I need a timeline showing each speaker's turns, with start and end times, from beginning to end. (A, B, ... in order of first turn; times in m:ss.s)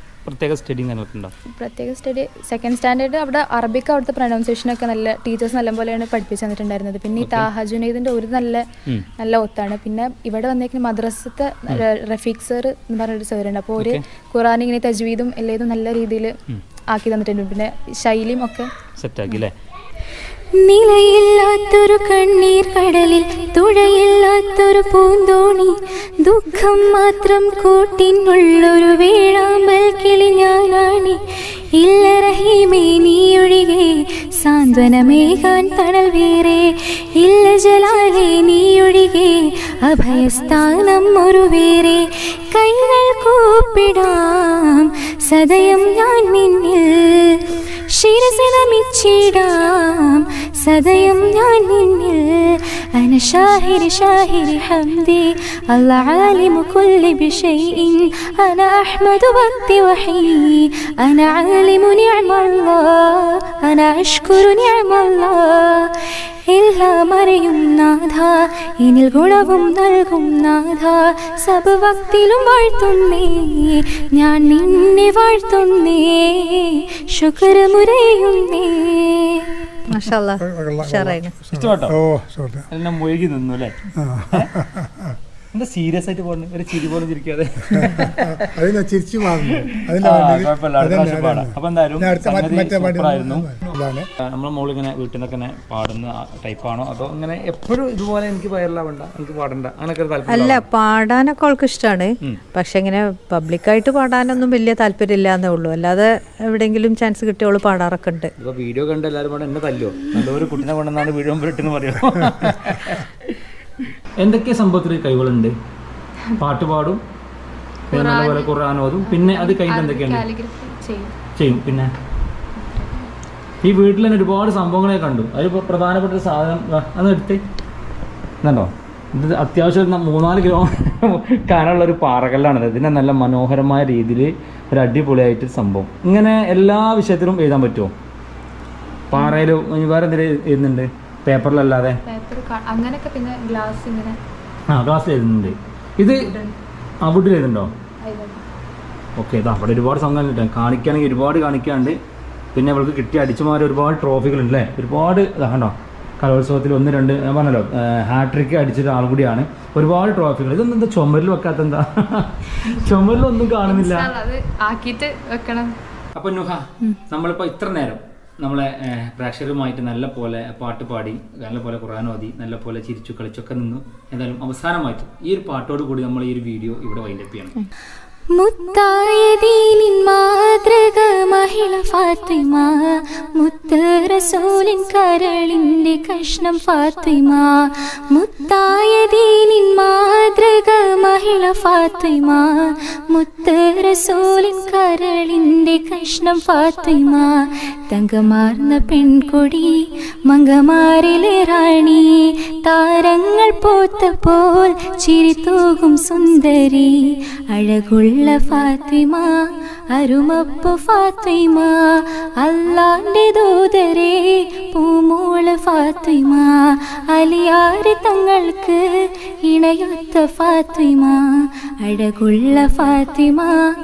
0:00.2-0:01.3 A
0:01.6-0:08.6 B
0:07.2-0:07.5 A
0:09.2-0:16.3 B
0:13.8-0:14.0 A
0:16.9-0:18.7 B
0:19.0-0:19.5 A
0:20.5-0:31.2 C
0:31.8-1:19.5 C
1:19.9-1:21.3 D
1:20.4-1:22.6 E
1:21.5-1:22.0 A
1:22.7-1:23.8 A
1:24.0-1:24.9 E
1:25.5-1:28.5 A
1:27.8-1:34.1 E
1:29.4-1:33.5 A
1:34.3-1:40.7 A
1:40.2-1:48.3 D
1:48.4-1:53.3 A
1:54.2-1:55.5 A
1:56.4-1:57.0 A
1:57.9-1:58.5 B
1:57.9-2:00.2 A
1:59.0-2:01.1 B
2:01.4-2:01.9 A
2:02.6-2:03.1 B
2:03.6-2:07.4 A
2:08.4-2:17.9 A
2:19.1-2:22.0 A
2:22.0-2:24.2 B
2:24.7-2:26.3 A
2:26.2-2:26.5 B
2:27.0-2:27.7 A
2:28.0-2:28.4 B
2:29.2-2:32.0 A
2:32.5-2:44.1 A
2:43.6-2:45.7 B
2:46.2-2:57.5 A
2:58.3-3:17.3 C
3:17.9-3:22.1 C
3:22.6-3:26.9 C
3:27.5-3:29.4 C
3:29.9-3:38.8 C
3:39.4-3:43.6 C